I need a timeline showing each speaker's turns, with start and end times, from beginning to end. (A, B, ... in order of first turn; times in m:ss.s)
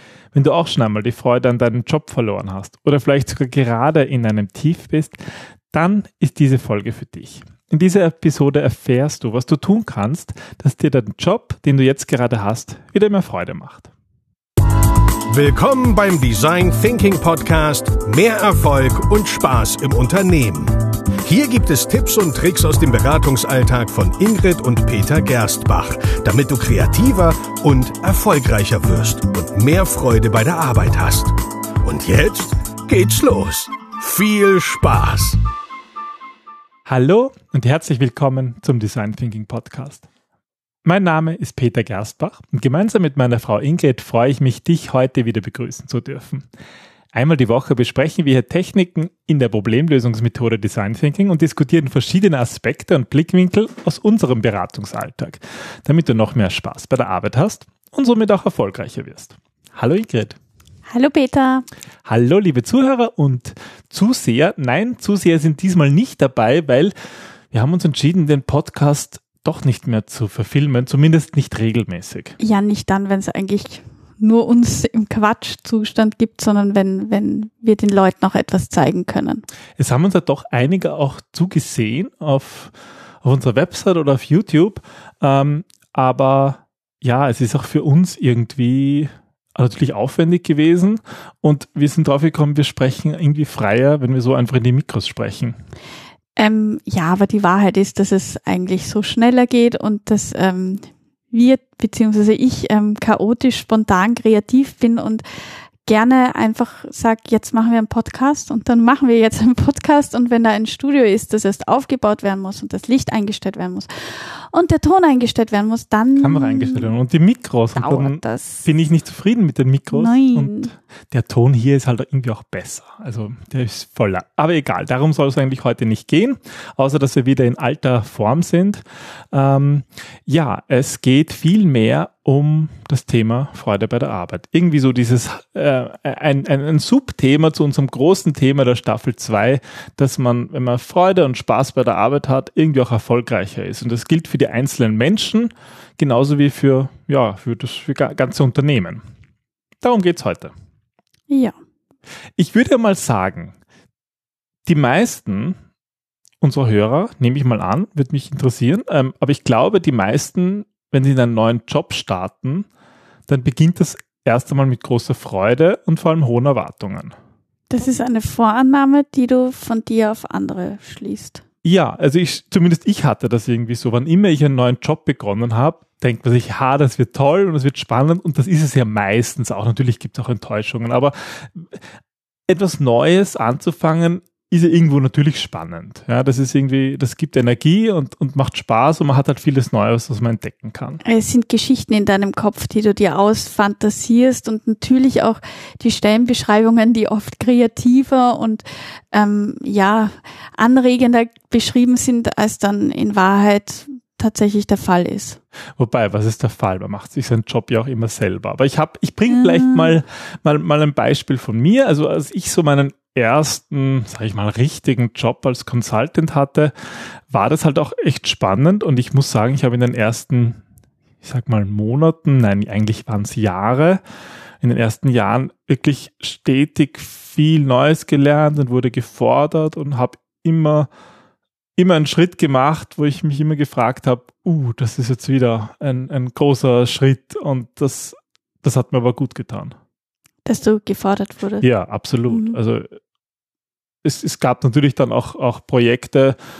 0:00.3-0:05.2 A
0:05.7-0:13.9 A
0:15.3-0:35.4 B
0:36.9-0:40.1 A
0:40.8-0:46.5 A
0:47.1-1:00.4 A
1:00.9-1:01.7 C
1:02.0-1:06.9 A
1:07.5-1:12.4 A
1:12.4-1:19.4 C
1:19.8-1:22.7 A
1:23.2-1:35.6 A
1:36.4-1:45.2 C
1:45.8-1:56.9 C
1:56.2-2:29.0 A
1:57.8-1:58.6 C
1:59.9-2:00.7 C
2:29.8-2:30.5 A
2:32.4-2:33.6 A
2:34.7-2:35.6 A
2:36.4-2:42.7 A
2:43.3-2:47.1 A
2:47.7-2:51.4 C
2:51.6-3:01.8 A
3:02.5-3:11.0 A
3:11.0-3:25.4 C
3:25.8-3:36.7 A
3:29.3-3:30.0 C
3:37.3-3:40.6 A
3:41.2-3:44.0 A
3:44.6-3:50.9 A
3:51.8-3:59.8 A
4:00.5-4:01.6 C
4:01.6-4:03.0 A
4:02.3-4:02.6 C
4:04.0-4:06.4 A